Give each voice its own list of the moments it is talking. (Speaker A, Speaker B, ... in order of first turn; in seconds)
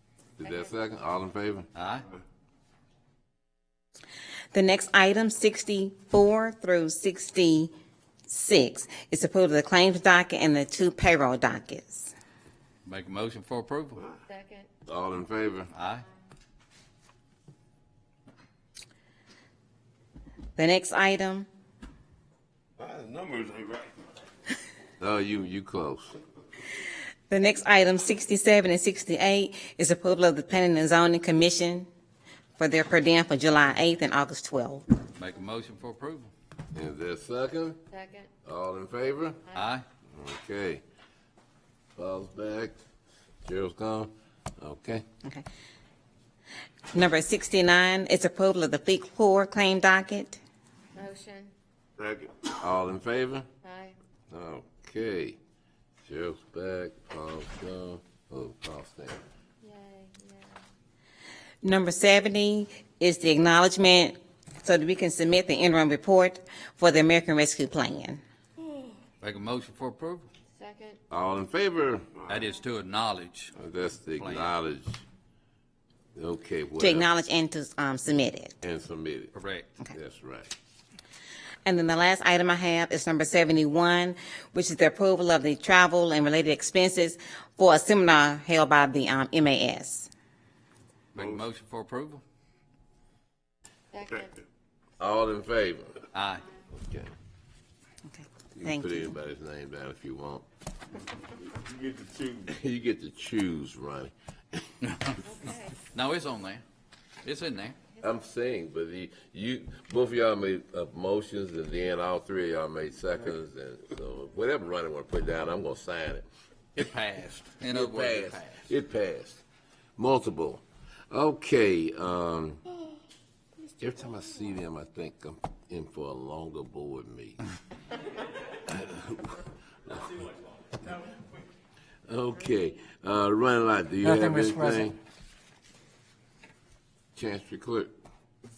Speaker A: 0.4-1.7, 14.9-15.7, 25.0-26.2, 36.7-37.8, 38.4-39.5, 40.1-40.8, 42.0-42.7, 43.4-45.0, 52.6-53.5, 54.3-55.4, 56.0-59.2, 71.1-72.1, 73.5-75.0, 76.1-77.1, 78.6-79.3, 79.9-80.5, 95.0-96.0, 96.8-97.1, 98.5-100.4, 102.4-104.6, 108.0-116.2, 117.6-119.4, 120.0-122.6, 123.8-127.4, 128.7-130.3, 132.1-135.0, 137.2-137.9
Speaker B: 1.7-2.0, 12.8-14.1, 15.7-16.0, 35.2-36.3, 39.5-39.8, 69.2-70.3, 72.3-73.5, 74.2-74.5, 79.3-79.7, 91.1-92.2, 96.1-96.5, 104.8-105.3, 105.9-106.6, 107.2-107.8, 116.7-118.6
Speaker C: 4.5-7.7, 8.3-12.1, 20.6-21.5, 27.3-31.9, 32.6-34.9, 46.9-50.4, 61.6-68.2, 76.8-78.5, 81.6-90.1, 98.1-99.1
Speaker D: 14.3-14.7, 37.9-38.3, 51.0-51.5, 53.6-54.0, 59.6-60.6, 70.5-71.0, 93.9-94.3, 105.4-105.7
Speaker E: 22.8-23.9, 52.0-52.3, 101.6-102.4